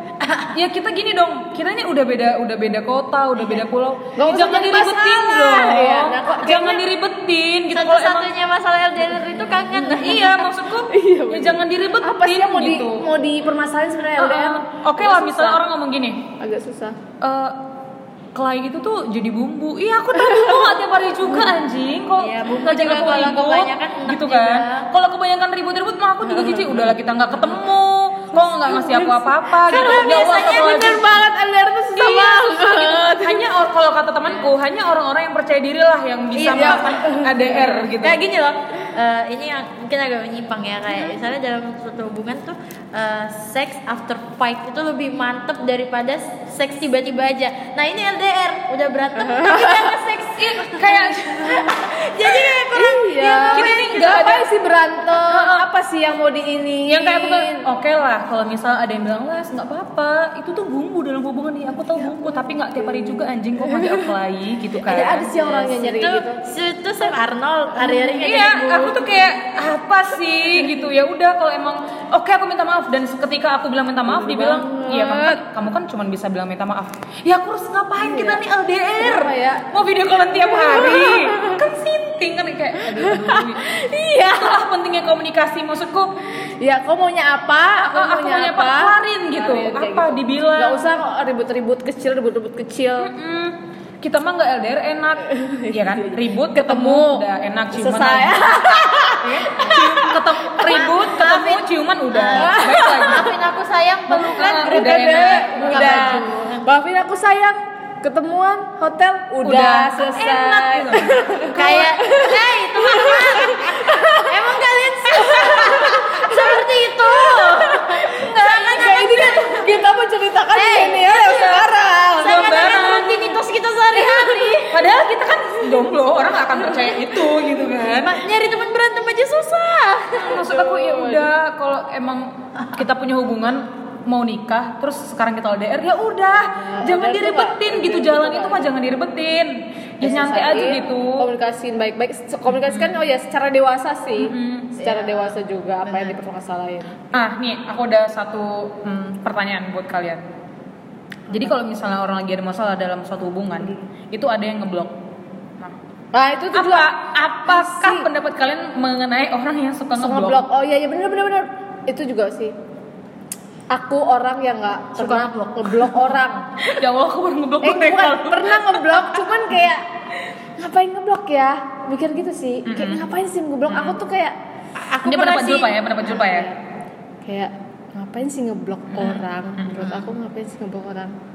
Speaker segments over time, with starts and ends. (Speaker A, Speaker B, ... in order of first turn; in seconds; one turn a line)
Speaker A: 0.2-0.5
Speaker B: 0.3-8.3
Speaker C: 4.2-6.8
Speaker A: 7.7-10.5
Speaker B: 9.8-13.1
Speaker C: 10.9-15.6
Speaker B: 14.2-16.3
Speaker C: 16.4-17.0
Speaker B: 17.2-17.6
Speaker B: 18.3-31.2
Speaker C: 20.2-20.7
Speaker A: 22.2-24.9
Speaker C: 26.3-26.9
Speaker C: 28.6-33.5
Speaker A: 29.6-31.1
Speaker B: 31.9-38.2
Speaker A: 36.3-54.3
Speaker C: 36.5-37.8
Speaker C: 49.2-49.9
Speaker B: 50.4-51.8
Speaker C: 52.6-57.7
Speaker B: 53.5-54.5
Speaker B: 55.1-55.7
Speaker B: 56.9-65.3
Speaker C: 62.8-64.1
Speaker C: 64.8-66.4
Speaker A: 65.1-69.1
Speaker B: 68.1-86.1
Speaker C: 74.1-75.4
Speaker C: 78.0-78.4
Speaker C: 79.0-79.7
Speaker C: 80.5-81.6
Speaker C: 82.8-84.4
Speaker C: 86.6-93.1
Speaker B: 87.9-90.9
Speaker B: 93.0-103.4
Speaker C: 95.3-100.9
Speaker A: 99.2-99.8
Speaker A: 100.6-106.7
Speaker C: 102.3-103.3
Speaker B: 104.1-106.2
Speaker C: 104.3-114.4
Speaker B: 109.4-111.8
Speaker A: 111.5-119.7
Speaker C: 115.1-122.7
Speaker A: 120.5-121.4
Speaker B: 121.1-123.4
Speaker A: 122.2-124.8
Speaker B: 124.0-128.2
Speaker A: 126.7-127.0
Speaker A: 128.0-130.4
Speaker B: 130.2-141.3
Speaker C: 130.3-131.3
Speaker C: 136.3-138.7
Speaker C: 140.0-147.1
Speaker B: 142.6-142.9
Speaker B: 144.2-144.9
Speaker A: 144.9-145.3
Speaker A: 145.8-146.2
Speaker B: 147.1-150.2
Speaker B: 151.3-154.9
Speaker C: 156.1-156.9
Speaker B: 156.5-160.4
Speaker C: 157.4-158.1
Speaker C: 159.9-162.6
Speaker C: 163.7-166.7
Speaker A: 164.9-165.7
Speaker B: 166.7-169.2
Speaker C: 167.6-169.9
Speaker C: 170.6-174.3
Speaker B: 172.7-173.1
Speaker B: 173.7-174.0
Speaker A: 174.8-175.8
Speaker B: 175.0-176.5
Speaker C: 176.0-176.5
Speaker C: 177.2-181.1
Speaker B: 178.9-180.0